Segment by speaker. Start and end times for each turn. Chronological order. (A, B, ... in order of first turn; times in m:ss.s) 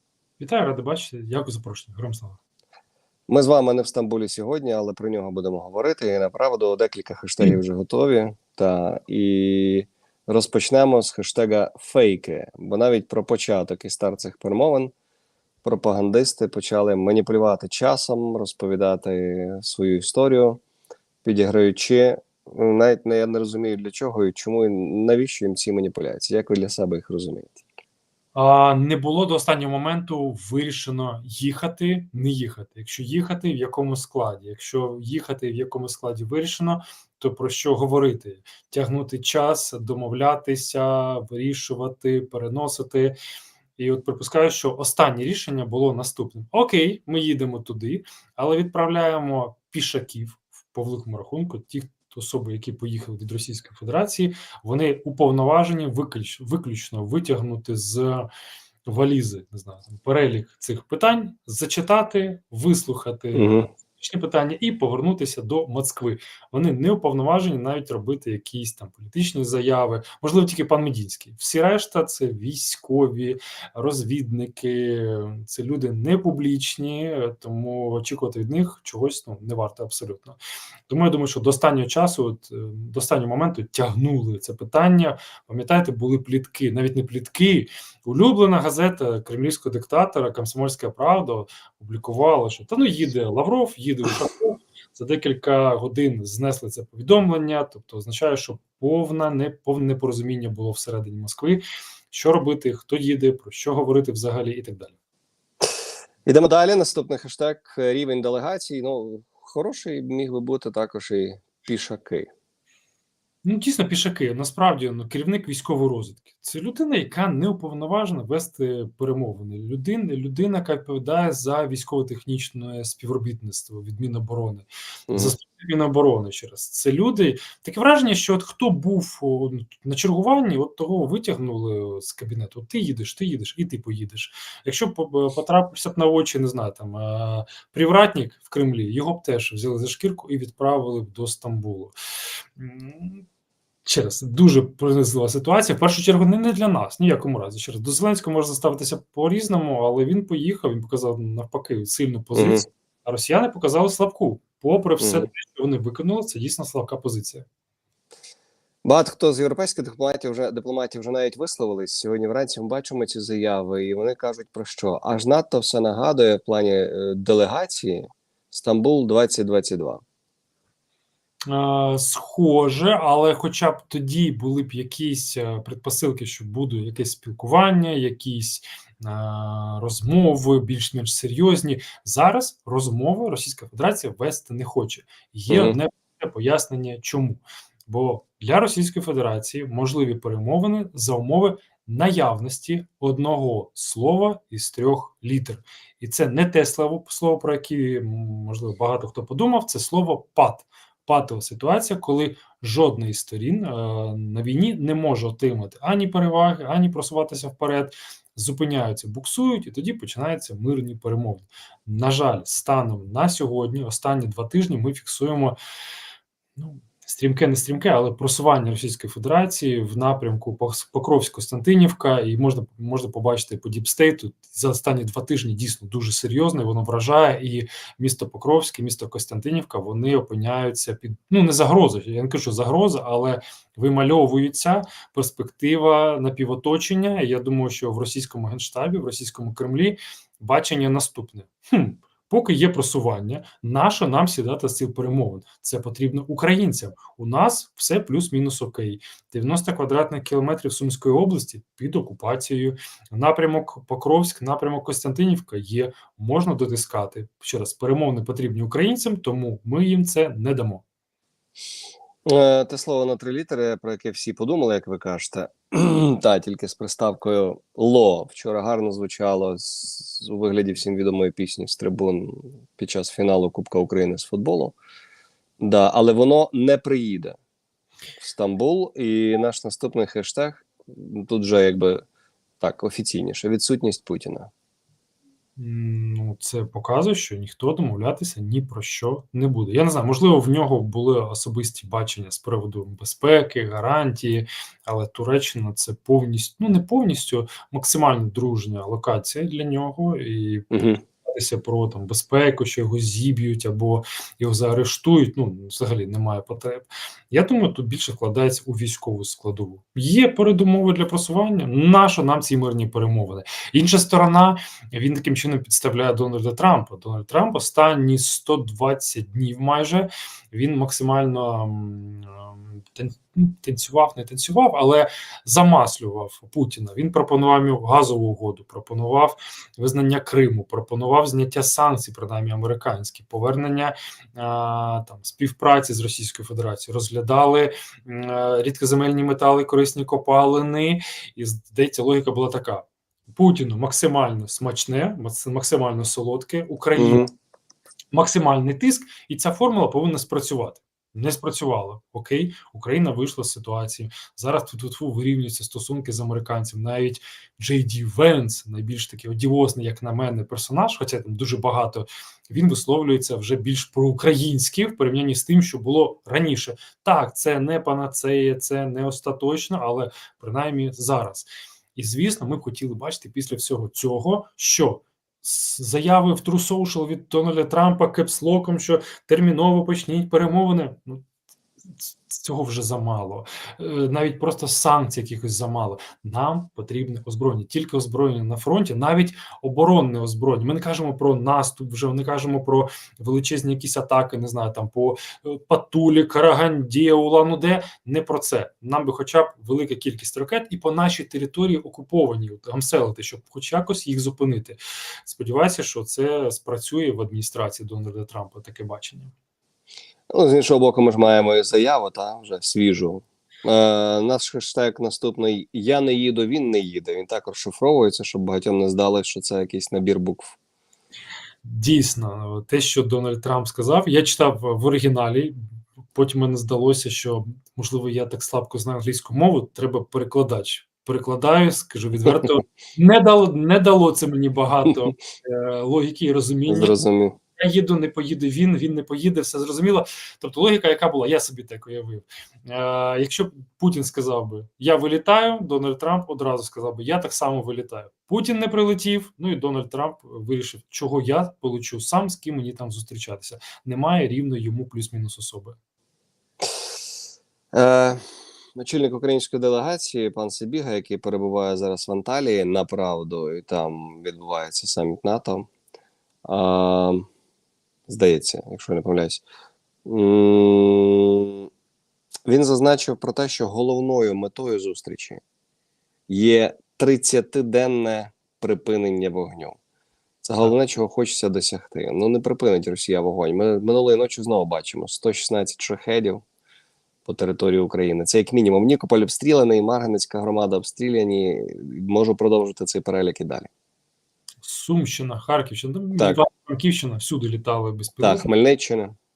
0:00.4-0:02.4 A
0:03.3-0:14.9 B
0:15.6-0:20.6 B
0:21.2-0:27.6 B
0:28.4-0:43.2 A
0:43.8-0:58.3 A
0:58.8-1:44.9 A
1:03.3-1:03.7 B
1:46.3-1:52.3 B
1:53.4-2:22.0 A
2:05.1-2:05.3 B
2:22.6-2:23.2 A
2:23.9-2:37.5 A
2:32.4-2:32.6 B
2:35.0-2:35.3 B
2:38.8-2:50.0 B
2:51.5-3:35.6 A
3:05.5-3:05.8 B
3:36.6-4:20.8 A
4:22.3-4:34.8 B
4:35.6-4:37.4 B
4:38.2-4:42.0 B
4:42.6-4:44.5 B
4:45.6-5:00.7 A
5:00.7-5:01.0 B
5:01.2-5:47.2 A
5:47.0-5:47.3 B
5:48.1-6:21.2 A
6:21.9-6:49.3 A
6:50.3-7:00.6 B
7:01.6-7:05.6 A
7:06.1-7:17.0 A
7:16.7-7:17.4 B
7:17.6-7:35.8 A
7:37.7-7:38.2 B
7:38.8-7:45.7 B
7:46.4-7:47.3 B
7:48.1-7:49.4 B
7:50.1-7:51.7 B
7:52.5-7:55.4 B
7:56.3-7:59.8 B
8:00.4-8:06.4 B
8:07.2-8:13.7 B
8:14.6-8:18.5 A
8:18.2-8:19.2 B